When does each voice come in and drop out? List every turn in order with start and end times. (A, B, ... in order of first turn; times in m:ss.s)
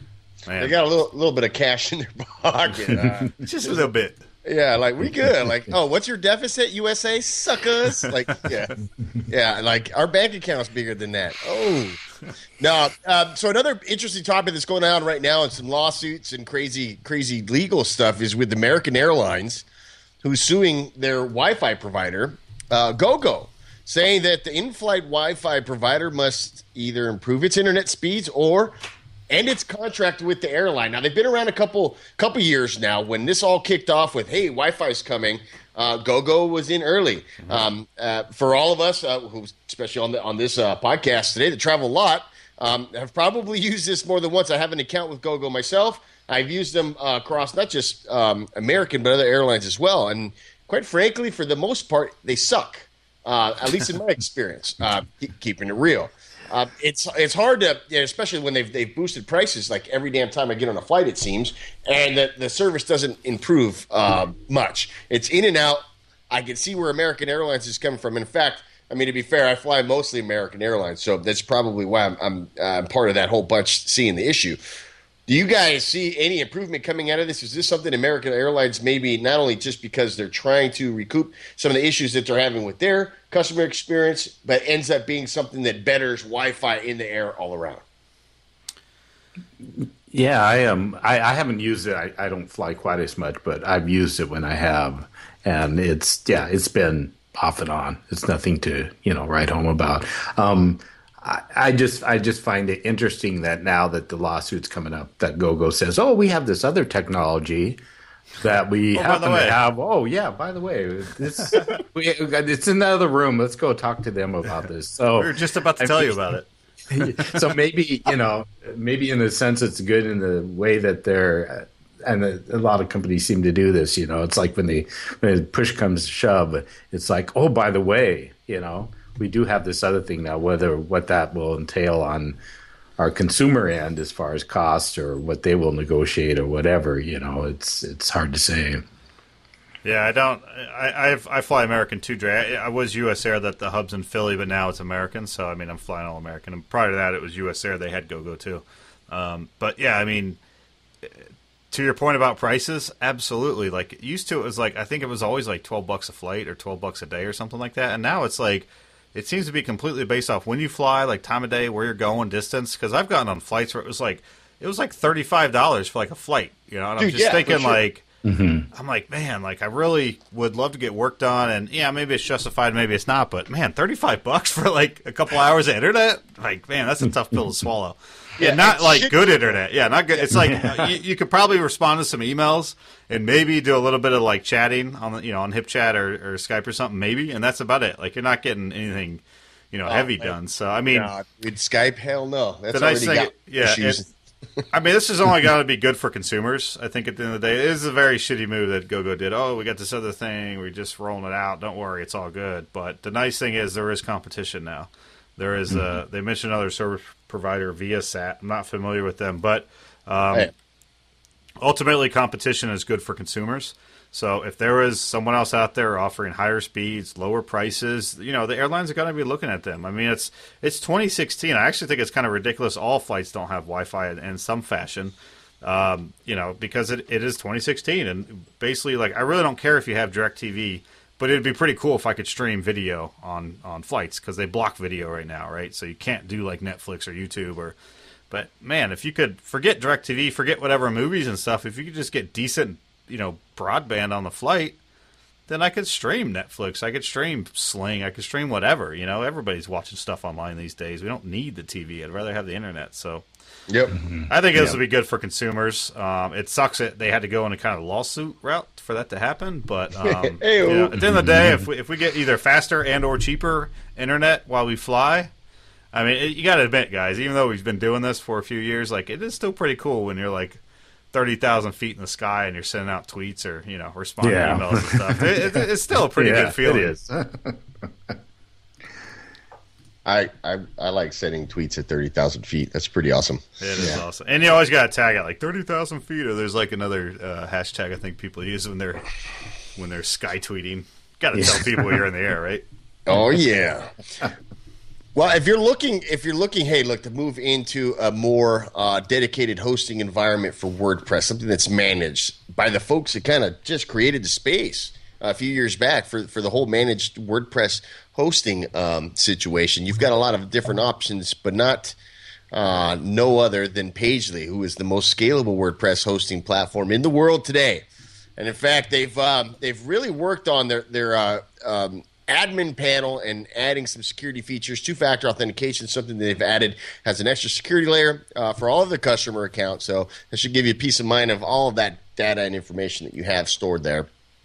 0:00.5-0:00.8 A
0:00.6-0:03.8 B
0:03.4-0:04.2 A
0:04.4-0:08.8 B
0:09.3-0:12.0 B
0:12.6-0:19.6 B
0:20.2-0:28.8 B
0:29.3-1:14.6 B
1:15.3-1:27.8 B
1:29.7-1:47.8 C
1:48.4-1:56.2 C
1:48.9-1:49.6 A
1:55.2-1:56.5 A
1:56.9-2:12.4 C
1:57.0-1:57.4 A
2:13.0-2:18.8 C
2:19.8-2:30.4 A
2:31.7-2:48.1 A
2:47.0-2:47.8 B
2:48.2-2:48.7 C
2:48.7-3:11.1 A
2:58.4-2:59.6 B
3:09.9-3:10.4 B
3:10.9-3:14.6 B
3:12.7-3:14.0 A
3:14.7-3:30.5 A
3:31.6-3:57.8 A
3:58.3-4:04.8 A
4:05.5-4:13.3 A
4:13.7-4:14.0 B
4:14.0-4:14.8 C
4:14.3-4:25.3 A
4:20.0-4:21.0 B
4:21.1-4:21.7 C
4:25.9-4:30.6 A
4:31.1-4:36.9 A
4:34.2-4:35.6 C
4:36.2-4:38.2 C
4:40.0-4:44.0 B
4:43.6-4:49.1 A
4:49.8-4:52.6 A
4:53.1-4:53.9 B
4:55.2-5:12.0 B
5:12.5-5:17.9 B
5:18.4-5:34.1 B